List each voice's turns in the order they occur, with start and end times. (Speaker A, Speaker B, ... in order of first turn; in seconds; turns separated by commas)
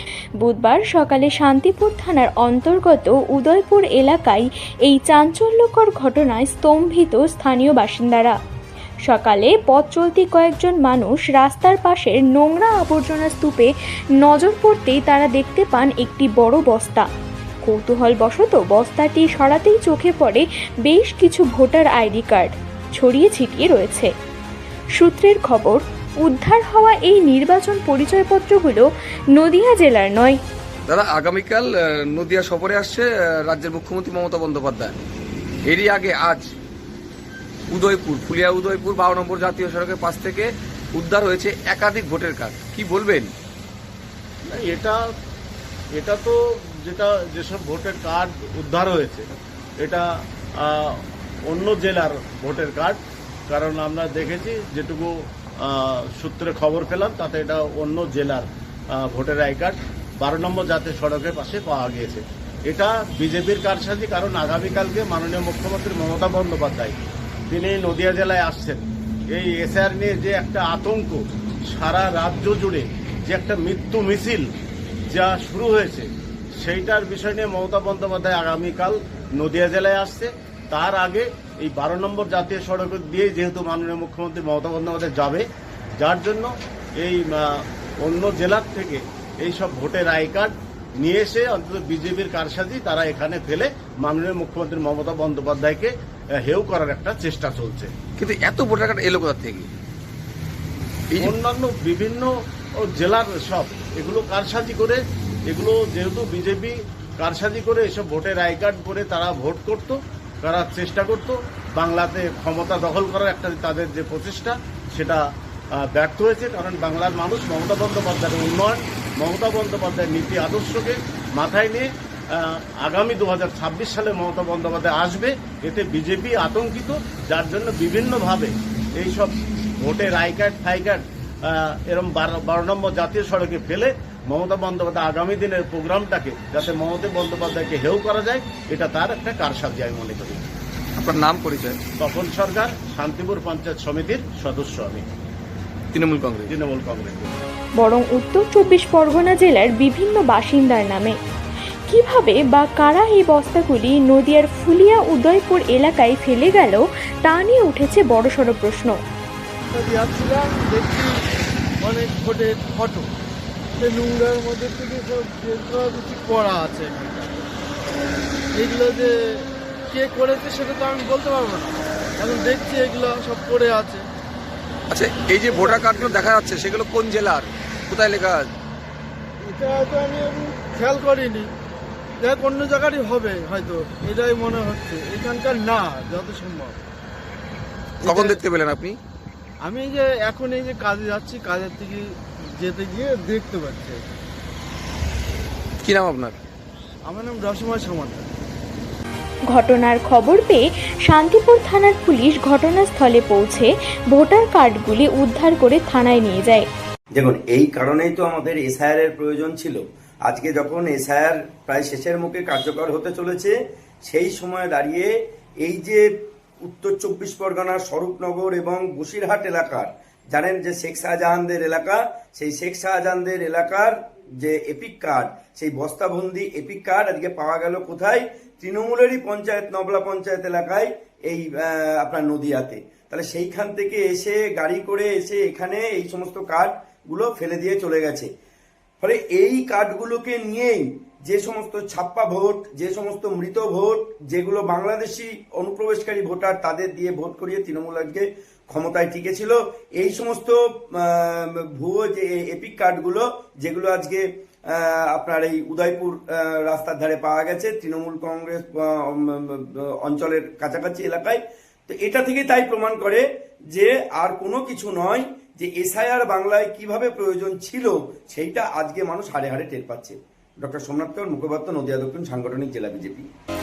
Speaker A: 0.4-8.3, Speaker A: 9.0-13.7, Speaker A: 14.2-17.1, Speaker A: 17.6-24.1, Speaker A: 24.9-30.4, Speaker B: 30.9-35.0, Speaker B: 35.6-36.5, Speaker B: 37.7-43.3, Speaker C: 44.4-45.0, Speaker C: 45.9-49.3, Speaker C: 49.8-50.0, Speaker C: 50.6-74.5, Speaker C: 75.1-85.5, Speaker C: 86.0-97.9, Speaker B: 98.2-99.7, Speaker B: 101.1-101.3, Speaker C: 101.2-102.3, Speaker C: 102.8-115.2, Speaker C: 115.8-140.5, Speaker B: 141.0-141.8, Speaker C: 142.0-145.1, Speaker B: 145.9-146.5, Speaker C: 146.5-147.3, Speaker A: 147.8-151.2, Speaker A: 151.9-159.0, Speaker D: 159.7-161.1, Speaker D: 161.8-163.1, Speaker D: 163.8-167.4, Speaker D: 168.5-174.0, Speaker B: 174.9-178.5, Speaker D: 175.6-176.0, Speaker D: 179.4-181.5, Speaker D: 182.2-186.8, Speaker B: 188.0-189.0, Speaker D: 189.6-192.0, Speaker D: 192.6-194.0, Speaker B: 195.8-196.3, Speaker D: 197.1-198.3, Speaker A: 199.5-206.7, Speaker E: 207.1-215.1, Speaker E: 215.6-216.1, Speaker E: 216.6-238.3, Speaker E: 239.0-273.3